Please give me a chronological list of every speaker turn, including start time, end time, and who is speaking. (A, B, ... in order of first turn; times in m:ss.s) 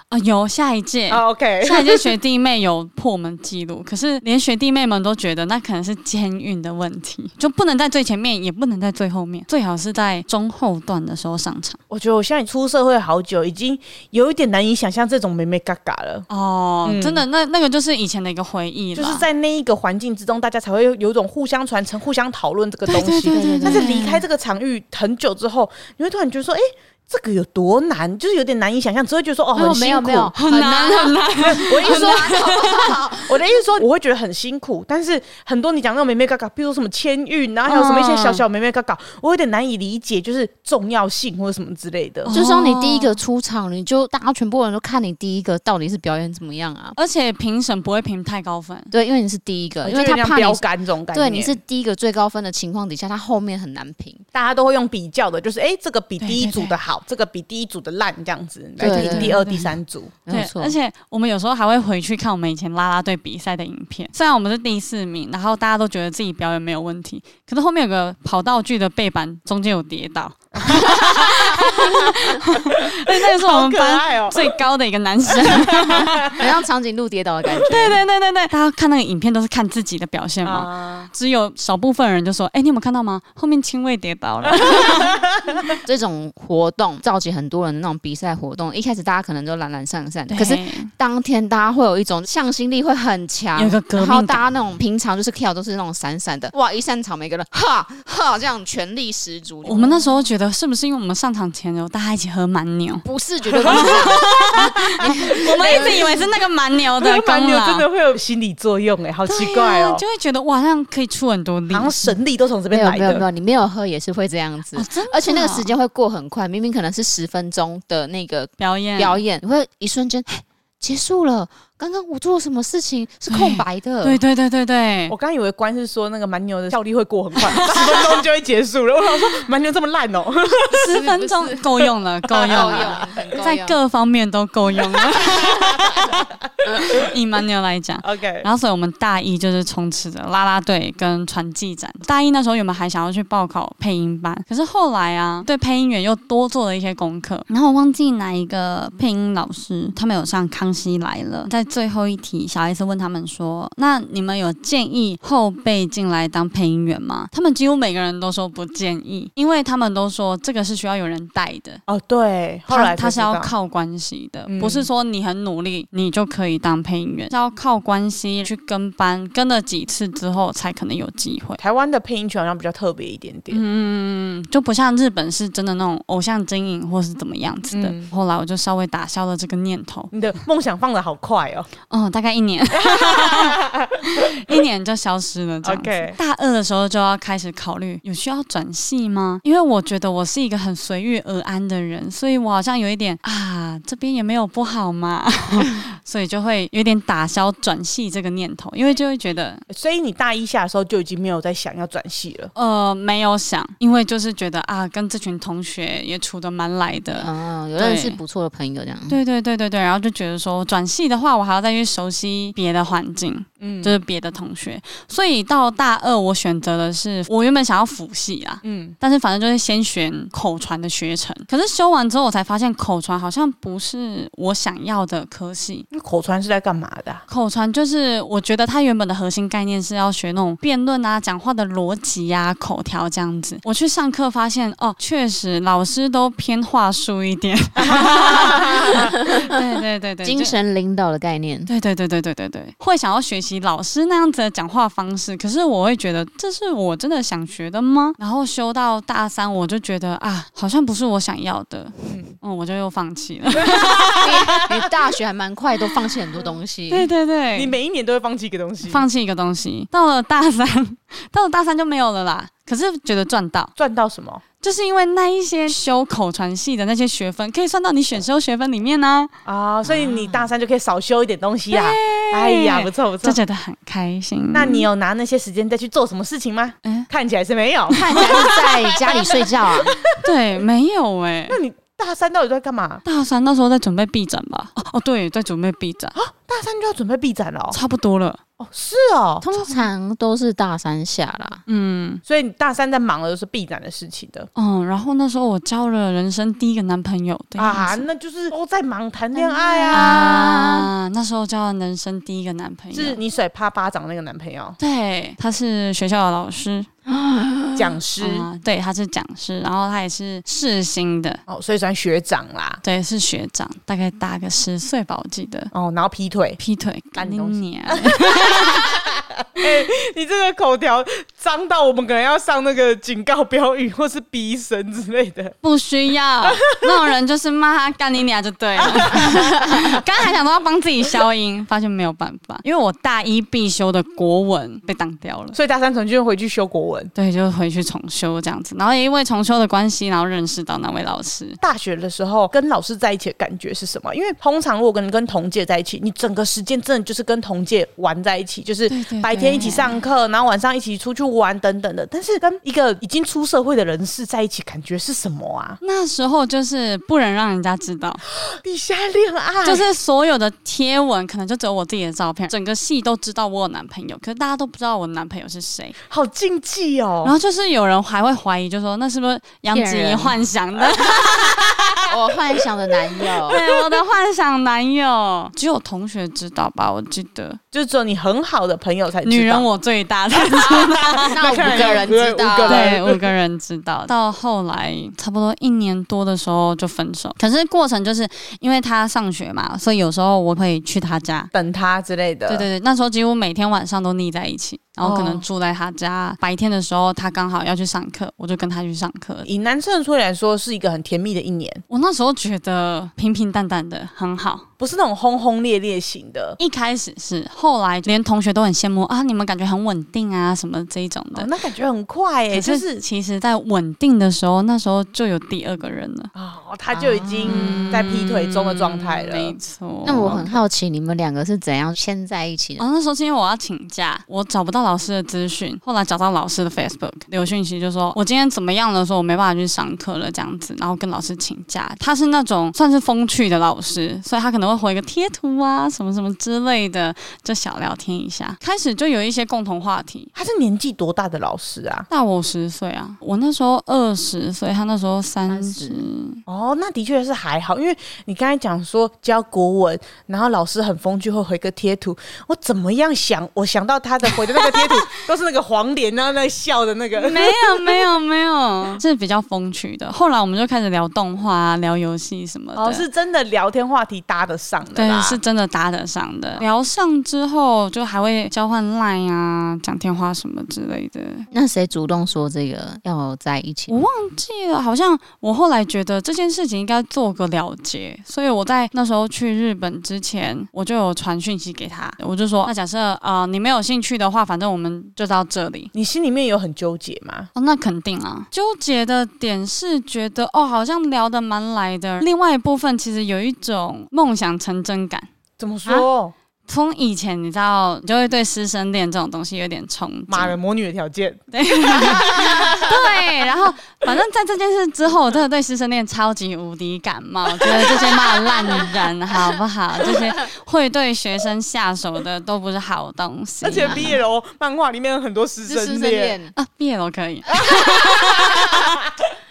0:00.1-0:11.8 A
0:01.1-0:02.1 B
0:11.9-0:16.3 B
0:16.3-0:19.3 A
0:16.8-0:17.2 B
0:18.9-0:30.3 B
0:22.9-0:24.2 A
0:23.3-0:24.0 C
0:29.5-0:33.6 C
0:30.4-0:33.2 A
0:31.4-0:32.4 B
0:33.2-0:42.3 B
0:37.7-0:38.4 A
0:42.2-0:43.2 A
0:42.3-0:47.0 C
0:47.0-0:48.9 A
0:48.9-0:54.2 C
0:49.8-0:51.6 B
0:54.3-1:00.1 B
0:56.2-0:56.8 A
0:58.8-0:59.4 C
0:58.8-0:59.7 A
1:00.2-1:00.7 C
1:00.3-1:16.3 A
1:10.5-1:11.9 B
1:12.5-1:14.6 B
1:15.4-1:16.5 B
1:15.8-1:18.0 C
1:17.5-1:17.9 B
1:17.6-1:25.2 A
1:20.4-1:21.1 B
1:24.7-1:25.6 B
1:25.8-1:40.0 C
1:30.3-1:30.9 A
1:33.6-1:34.4 A
1:39.6-1:43.0 A
1:43.0-1:46.0 C
1:43.4-1:46.3 B
1:43.7-1:47.8 A
1:47.0-1:50.0 B
1:49.2-1:52.2 A
1:51.7-1:53.2 B
1:52.7-2:04.2 C
1:54.7-1:55.7 A
1:58.6-1:59.2 A
2:03.3-2:05.1 A
2:05.1-2:11.0 B
2:07.4-2:08.2 A
2:10.7-2:16.1 A
2:10.8-2:11.6 C
2:12.3-2:13.4 B
2:12.5-2:13.8 C
2:15.4-2:17.1 B
2:16.7-2:41.8 A
2:18.0-2:18.5 B
2:41.9-2:43.5 B
2:42.7-2:51.6 A
2:44.5-2:44.9 B
2:51.6-2:53.6 B
2:53.5-3:00.1 A
2:57.7-2:58.1 B
3:00.1-3:01.7 B
3:01.9-3:19.6 A
3:02.8-3:04.5 B
3:05.6-3:06.2 B
3:19.7-3:22.5 B
3:22.5-3:28.2 A
3:27.2-3:29.2 C
3:29.1-3:45.9 A
3:33.6-3:34.0 B
3:38.6-3:39.0 B
3:45.9-3:47.2 B
3:47.3-4:00.6 A
3:58.3-3:58.9 B
3:58.9-3:59.5 C
4:00.2-4:01.7 C
4:01.7-4:14.3 A
4:13.6-4:14.5 B
4:14.2-4:17.1 C
4:16.9-4:17.7 A
4:17.5-4:19.0 B
4:18.8-4:23.7 A
4:23.8-4:24.4 B
4:24.6-4:29.3 A
4:29.4-4:33.4 B
4:29.8-4:30.5 A
4:31.7-4:34.9 A
4:34.5-4:38.4 B
4:37.9-4:38.9 A
4:37.9-4:39.9 C
4:39.1-4:40.2 B
4:40.2-4:41.6 A
4:41.5-4:43.0 B
4:43.0-4:46.1 A
4:46.2-4:47.8 B
4:47.7-4:48.4 A
4:48.6-4:49.4 B
4:49.4-4:51.6 C
4:49.5-4:49.9 A
4:51.7-4:52.2 A
4:52.3-4:54.5 B
4:54.6-4:58.0 A
4:57.6-5:00.5 B
4:59.3-5:00.9 C
4:59.9-5:03.2 A
5:02.9-5:04.8 B
5:04.8-5:06.9 A
5:07.1-5:08.0 C
5:07.8-5:08.5 B
5:08.2-5:11.4 A
5:11.5-5:12.8 B
5:12.8-5:15.7 A
5:15.7-5:16.6 B
5:16.6-5:19.0 A
5:17.2-5:25.5 B
5:25.6-5:35.6 A
5:26.4-5:26.9 B
5:28.8-5:30.0 B
5:35.5-5:37.1 B
5:37.1-5:41.6 A
5:41.6-5:55.8 B
5:48.9-5:50.0 A
5:55.8-5:58.2 A
5:58.5-5:59.8 B
5:59.6-6:06.0 A
6:06.1-6:07.3 B
6:07.2-6:12.0 A
6:09.7-6:10.4 C
6:12.1-6:13.6 C
6:13.5-6:17.6 A
6:17.7-6:19.6 B
6:19.2-6:22.0 A
6:20.7-6:23.2 B
6:21.3-6:22.9 C
6:22.6-6:31.5 A
6:31.5-6:32.7 B
6:32.5-6:39.5 A
6:35.0-6:35.4 B
6:39.4-6:41.8 B
6:41.9-6:44.7 A
6:44.8-6:46.6 B
6:46.6-6:51.5 A
6:51.3-6:53.0 B
6:52.5-6:56.3 A
6:56.3-6:59.5 B
6:56.9-6:58.0 C
6:57.4-7:00.6 A
7:00.0-7:02.8 C
7:02.8-7:20.3 A
7:20.4-7:22.1 B
7:22.1-7:26.4 A
7:25.5-7:26.0 C
7:26.5-7:38.0 B
7:34.6-7:34.9 A
7:37.1-7:43.0 A
7:42.8-7:45.4 B
7:44.9-7:51.5 A
7:51.5-7:54.0 C
7:53.9-8:05.9 A
8:05.9-8:07.5 B
8:07.5-8:15.3 A
8:15.6-8:16.3 B
8:16.7-8:20.6 A
8:20.3-8:22.9 B
8:21.5-8:34.2 A
8:27.8-8:28.1 B
8:33.6-8:36.4 B
8:33.8-8:34.1 C
8:35.6-8:36.5 C
8:36.5-8:38.8 A
8:37.6-8:39.2 B